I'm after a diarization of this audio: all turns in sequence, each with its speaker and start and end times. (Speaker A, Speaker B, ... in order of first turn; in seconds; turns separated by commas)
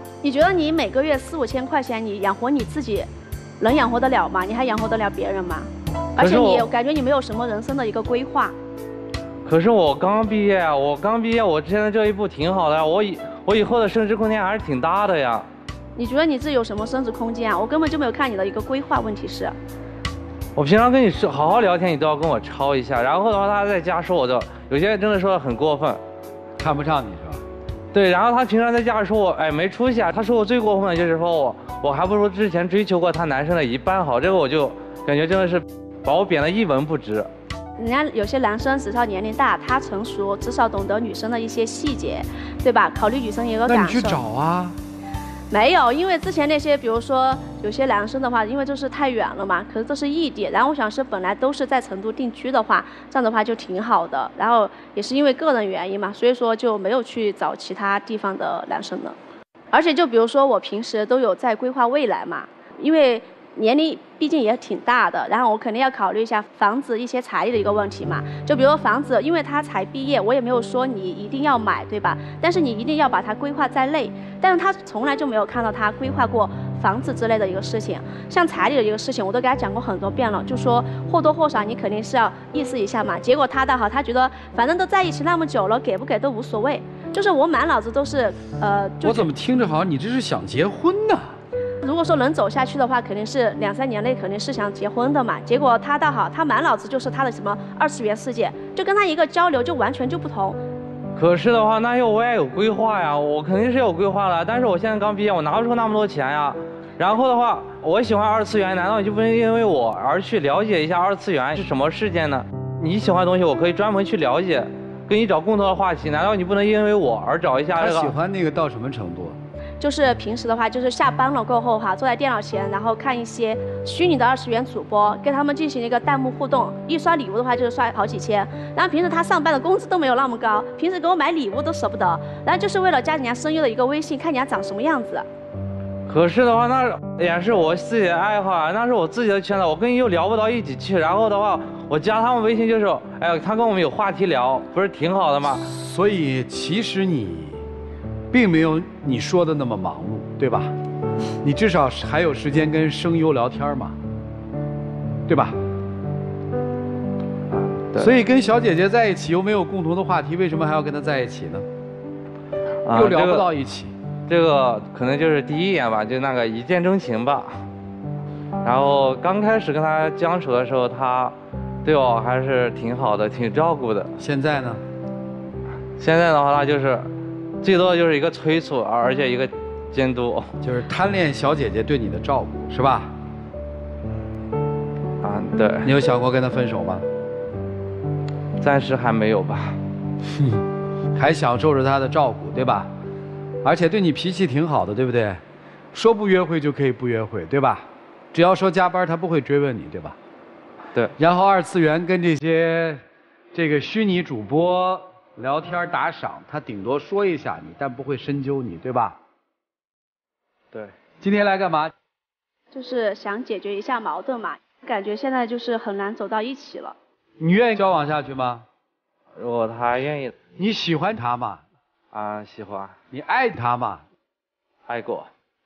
Speaker A: 0.2-8.5, Speaker B: 6.2-6.7, Speaker B: 9.4-15.5, Speaker A: 15.9-19.6, Speaker B: 20.6-26.0, Speaker C: 26.6-27.4, Speaker B: 27.9-37.3, Speaker A: 37.8-44.2, Speaker C: 43.6-44.8, Speaker A: 45.5-59.2, Speaker A: 59.7-89.3, Speaker C: 89.0-91.3, Speaker A: 91.8-100.6, Speaker B: 101.1-118.2, Speaker C: 117.8-119.4, Speaker A: 119.8-135.2, Speaker B: 136.1-145.6, Speaker C: 145.6-147.6, Speaker C: 148.3-150.7, Speaker C: 151.4-154.0, Speaker C: 155.3-155.6, Speaker B: 157.5-158.1, Speaker C: 158.0-161.7, Speaker B: 162.8-163.5, Speaker C: 162.9-163.9, Speaker B: 164.3-167.6, Speaker B: 168.6-174.1, Speaker C: 174.2-174.8, Speaker B: 176.0-177.1, Speaker B: 177.6-180.5, Speaker C: 180.6-183.1, Speaker B: 185.2-185.9, Speaker C: 185.8-187.0, Speaker B: 188.6-189.8, Speaker C: 190.3-190.6, Speaker C: 191.1-192.9, Speaker C: 193.6-195.4, Speaker C: 195.9-200.2, Speaker C: 201.2-203.0, Speaker C: 203.5-209.2, Speaker C: 211.2-211.9, Speaker A: 212.7-216.9, Speaker C: 217.4-218.7, Speaker B: 219.4-220.3, Speaker C: 220.5-221.6, Speaker B: 222.1-222.9, Speaker C: 223.1-224.0, Speaker B: 224.9-225.3